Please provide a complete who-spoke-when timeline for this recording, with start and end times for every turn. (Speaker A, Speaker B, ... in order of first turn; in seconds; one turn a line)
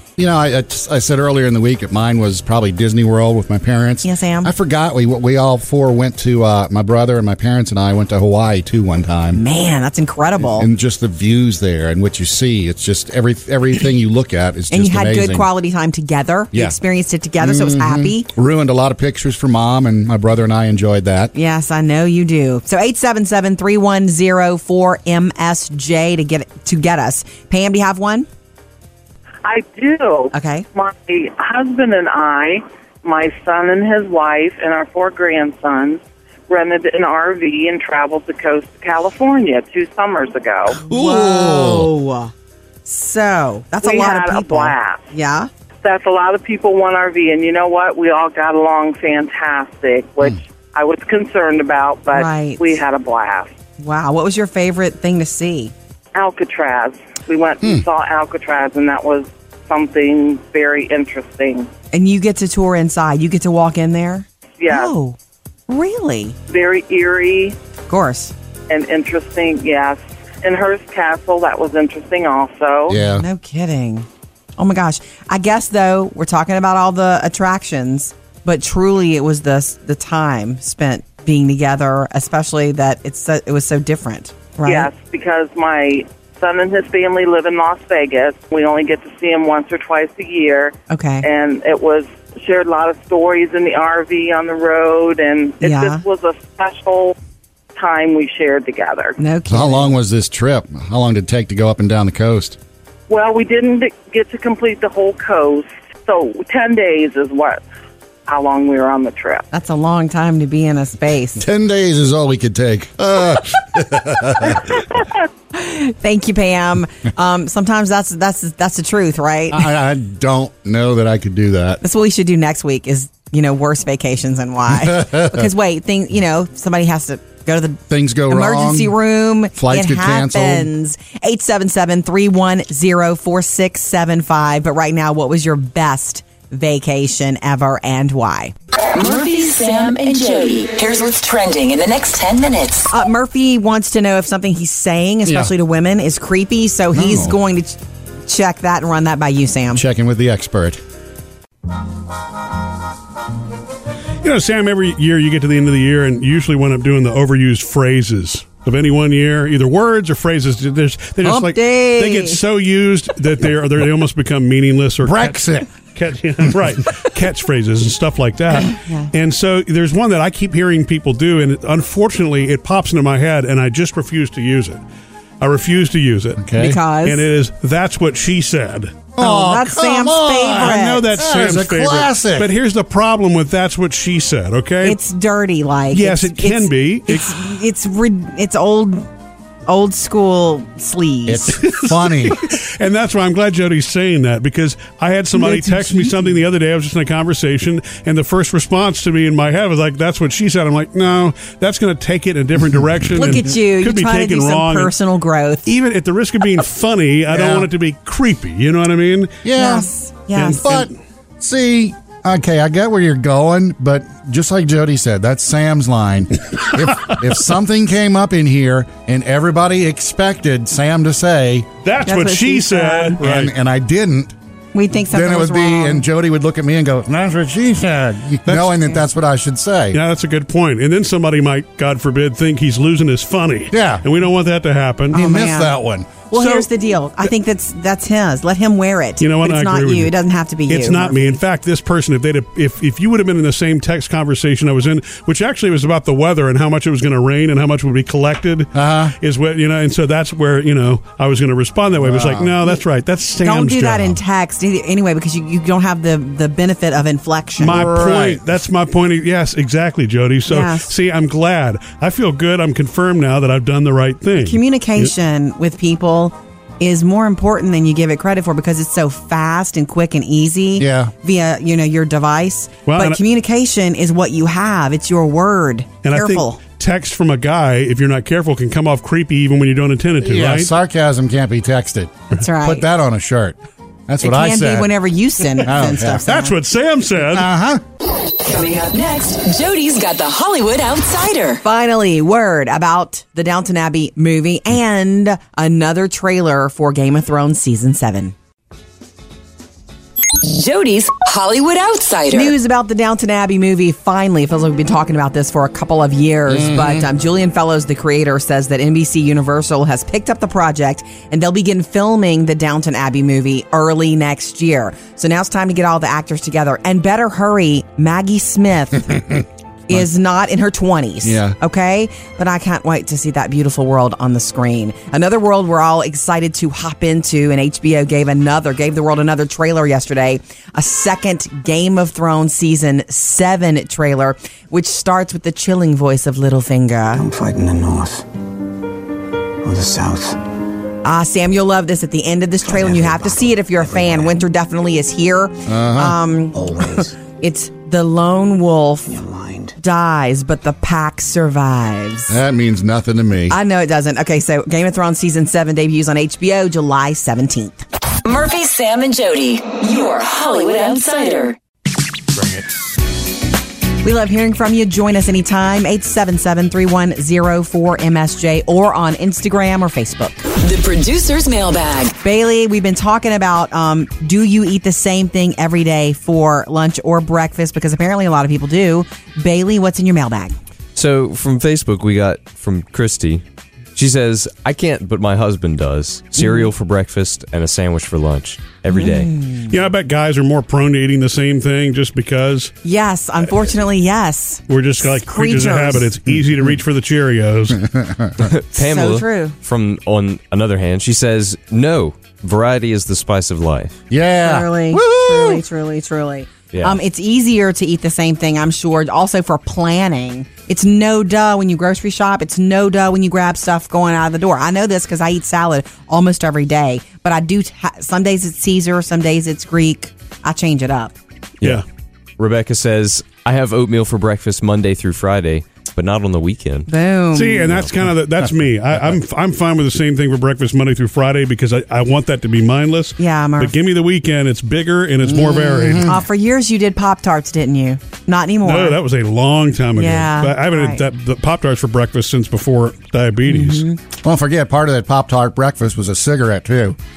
Speaker A: 0.2-9.4
Speaker B: 4.0-4.5
Speaker B: 9.3-10.7
Speaker A: 10.5-15.5
Speaker B: 14.7-18.3
Speaker A: 17.4-21.3
Speaker B: 21.3-28.3
Speaker C: 29.4-40.8
Speaker B: 30.3-30.6
Speaker B: 40.7-42.3
Speaker A: 40.8-41.9
Speaker B: 42.9-45.5
Speaker C: 43.8-45.1
Speaker C: 45.8-53.5
Speaker B: 52.1-52.8
Speaker B: 53.8-55.7
Speaker C: 56.1-61.7
Speaker B: 61.9-65.2
Speaker C: 64.6-64.9
Speaker B: 65.7-66.4
Speaker C: 66.5-67.6
Speaker B: 67.9-68.3
Speaker C: 68.7-73.0
Speaker A: 72.9-73.3
Speaker B: 72.9-84.9
Speaker C: 84.6-97.2
Speaker B: 90.9-91.3
Speaker B: 95.6-96.0
Speaker C: 97.8-99.2
Speaker B: 99.2-100.0
Speaker A: 99.5-102.6
Speaker C: 103.1-107.6
Speaker C: 108.3-109.5
Speaker B: 109.5-111.4
Speaker A: 111.4-114.8
Speaker B: 115.5-119.7
Speaker A: 119.5-121.8
Speaker B: 121.8-138.5
Speaker A: 124.7-125.5
Speaker A: 127.9-129.0
Speaker A: 129.6-130.7
Speaker D: 138.9-142.9
Speaker B: 142.9-149.8
Speaker A: 145.3-145.5
Speaker A: 146.9-147.4
Speaker A: 149.7-150.8
Speaker E: 154.2-174.8
Speaker B: 161.2-162.4
Speaker A: 165.0-165.7
Speaker B: 168.7-169.1
Speaker E: 175.4-176.4
Speaker A: 176.4-176.8
Speaker B: 176.6-177.2
Speaker E: 177.0-179.0
Speaker A: 179.2-182.5
Speaker B: 179.2-181.1
Speaker E: 180.5-185.0
Speaker B: 184.8-189.1
Speaker E: 185.9-187.4
Speaker B: 189.7-191.6
Speaker A: 191.3-192.4
Speaker E: 191.6-204.9
Speaker B: 195.4-196.2
Speaker B: 203.1-205.7
Speaker E: 205.7-209.4
Speaker A: 207.3-207.7
Speaker A: 209.4-209.9
Speaker B: 209.6-210.7
Speaker E: 210.4-210.9
Speaker A: 210.4-221.7
Speaker E: 221.8-223.5
Speaker B: 222.1-223.2
Speaker A: 223.2-224.3
Speaker B: 224.7-226.0
Speaker A: 225.1-230.0
Speaker E: 228.5-228.7
Speaker E: 229.9-235.2
Speaker A: 233.7-234.1
Speaker B: 235.1-235.8
Speaker A: 235.1-236.1
Speaker B: 236.3-241.4
Speaker E: 236.3-236.7
Speaker E: 239.2-240.1
Speaker E: 240.7-254.2
Speaker A: 248.7-249.1
Speaker A: 252.0-252.6
Speaker B: 253.4-257.9
Speaker A: 257.6-258.4
Speaker E: 257.6-265.1
Speaker B: 260.5-260.9
Speaker B: 264.4-276.6
Speaker A: 270.8-271.1
Speaker E: 272.9-273.2
Speaker E: 276.0-280.7
Speaker A: 280.2-283.6
Speaker B: 282.3-282.9
Speaker A: 284.1-284.9
Speaker B: 284.2-286.6
Speaker A: 285.6-286.3
Speaker E: 286.2-287.5
Speaker A: 287.2-287.8
Speaker D: 288.4-291.6
Speaker B: 291.6-298.3
Speaker D: 300.3-302.6
Speaker B: 302.3-337.2
Speaker A: 306.5-307.0
Speaker A: 321.2-321.6
Speaker F: 337.1-338.2
Speaker F: 339.6-340.4
Speaker B: 341.0-349.2
Speaker F: 342.7-344.4
Speaker A: 345.7-346.2
Speaker F: 346.6-347.1
Speaker F: 349.1-349.8
Speaker B: 349.8-352.4
Speaker A: 352.3-353.6
Speaker B: 353.5-357.8
Speaker D: 358.2-361.6
Speaker B: 364.0-370.4
Speaker D: 370.6-372.1
Speaker B: 372.2-380.5
Speaker G: 380.9-383.4
Speaker G: 383.9-389.3
Speaker B: 386.4-386.7
Speaker B: 388.9-389.7
Speaker E: 389.7-392.7
Speaker B: 392.8-396.1
Speaker E: 394.7-397.9
Speaker A: 396.4-396.7
Speaker A: 397.7-398.5
Speaker G: 398.4-404.0
Speaker B: 398.8-399.6
Speaker A: 404.1-405.6
Speaker B: 404.4-421.1
Speaker G: 406.7-407.0
Speaker G: 422.4-426.9
Speaker B: 426.9-427.7
Speaker E: 427.3-436.1
Speaker G: 427.6-427.9
Speaker B: 433.2-433.8
Speaker A: 435.3-436.2
Speaker B: 436.0-439.0
Speaker E: 438.6-443.9
Speaker B: 440.0-441.0
Speaker B: 443.5-444.0
Speaker A: 444.2-447.0